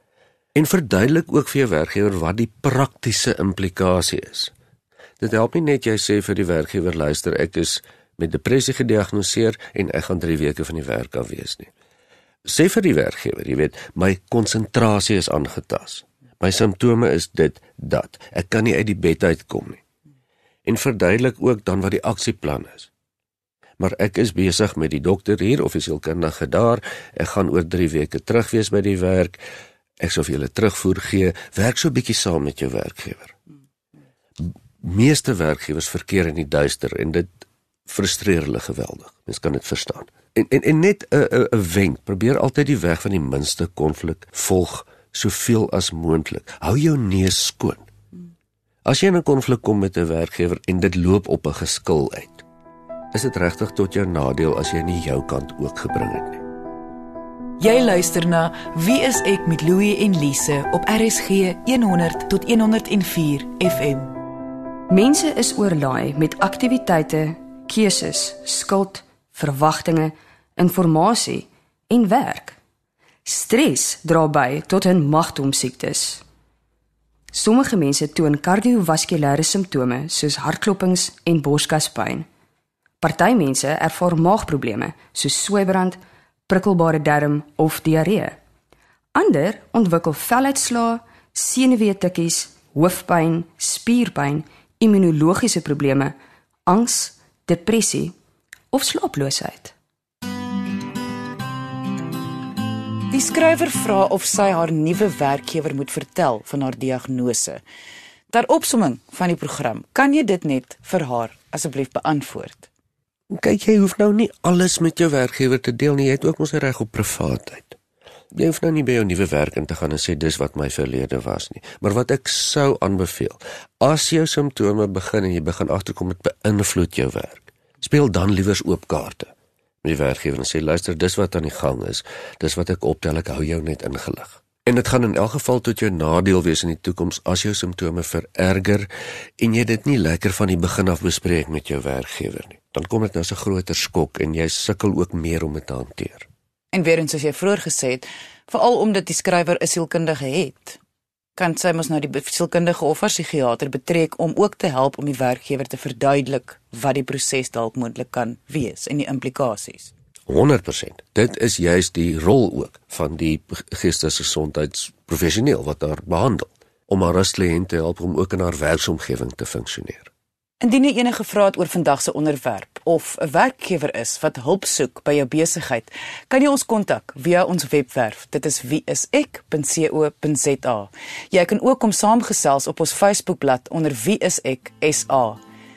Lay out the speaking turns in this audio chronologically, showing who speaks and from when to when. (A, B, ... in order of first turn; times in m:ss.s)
0:00.5-0:04.5 A
0:05.2-0:11.7 A
0:12.4-0:19.8 A
0:20.6-0:22.9 A
0:23.8-0:29.4 A
0:30.0-0:33.3 A
0:34.4-0:37.3 A
0:37.9-0:47.9 A
0:48.8-0:52.4 A
0:53.1-0:56.4 A
0:57.6-1:04.1 B
1:04.9-1:12.6 C
1:13.2-1:16.2 C
1:17.3-1:22.3 C
1:23.0-1:28.4 C
1:29.1-1:36.1 C
1:36.6-1:38.2 C
1:38.7-1:39.7 C
1:43.1-1:47.6 B
1:48.3-1:52.7 B
1:53.3-1:57.8 A
1:58.3-2:09.3 A
2:09.8-2:18.9 A
2:19.4-2:26.3 A
2:26.7-2:30.8 B
2:31.4-2:39.9 B
2:40.3-2:50.1 A
2:50.6-3:05.4 B